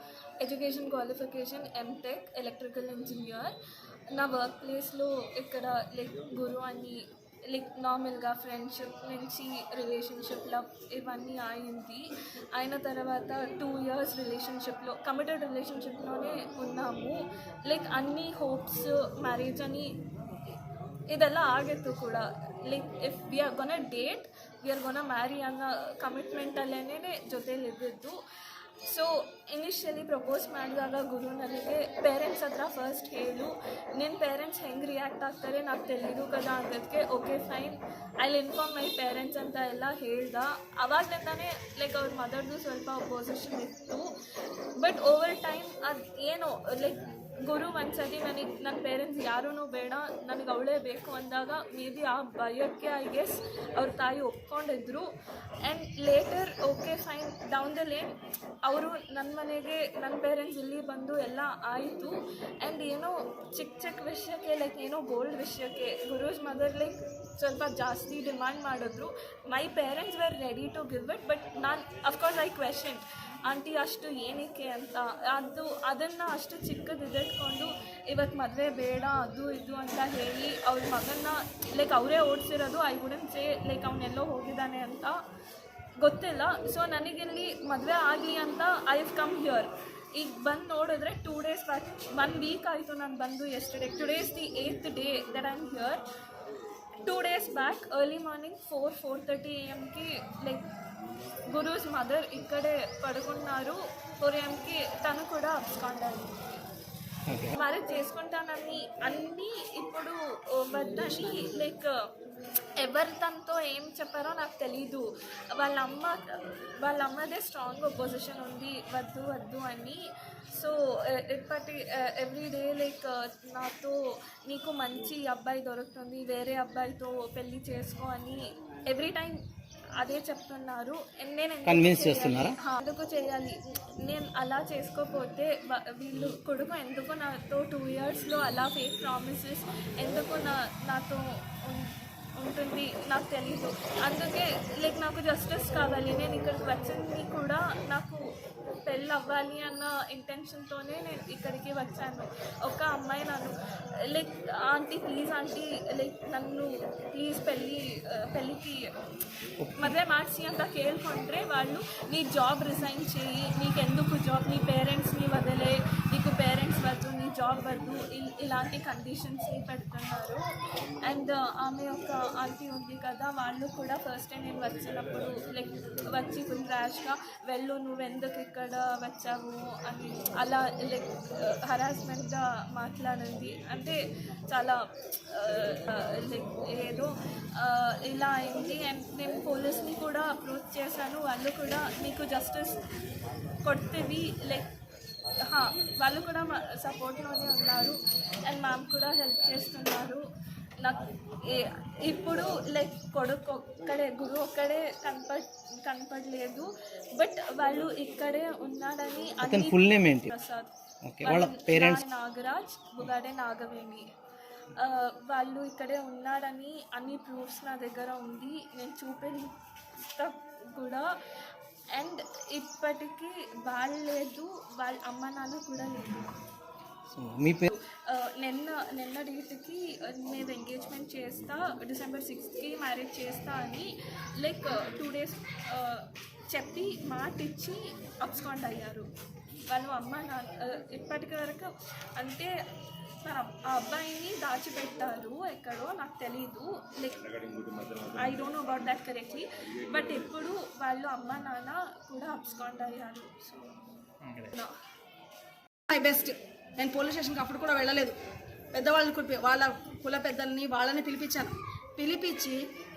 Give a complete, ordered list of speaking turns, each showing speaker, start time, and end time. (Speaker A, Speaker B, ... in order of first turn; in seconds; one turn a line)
Speaker A: 0.4-3.5
Speaker A: 4.1-19.9
Speaker A: 21.1-28.2
Speaker A: 28.8-44.0
Speaker A: 44.8-55.1
Speaker A: 55.6-85.2
Speaker A: 86.0-96.0
Speaker A: 97.0-100.7
Speaker A: 101.5-106.4
Speaker B: 107.3-107.5
Speaker A: 107.5-111.9
Speaker A: 112.8-129.4
Speaker A: 130.0-148.2
Speaker B: 131.6-132.6
Speaker A: 148.8-158.9
Speaker B: 159.6-159.9
Speaker A: 159.8-170.4
Speaker A: 171.0-184.0
Speaker A: 184.5-192.8
Speaker A: 193.6-194.7
Speaker A: 195.4-200.2
Speaker A: 200.8-214.1
Speaker B: 209.4-210.3
Speaker B: 211.0-212.0
Speaker A: 214.7-221.1
Speaker A: 221.9-226.3
Speaker B: 227.1-227.7
Speaker A: 227.7-239.1
Speaker A: 239.7-242.5
Speaker A: 243.2-253.8
Speaker A: 254.3-254.7
Speaker C: 255.9-258.1
Speaker C: 258.7-262.6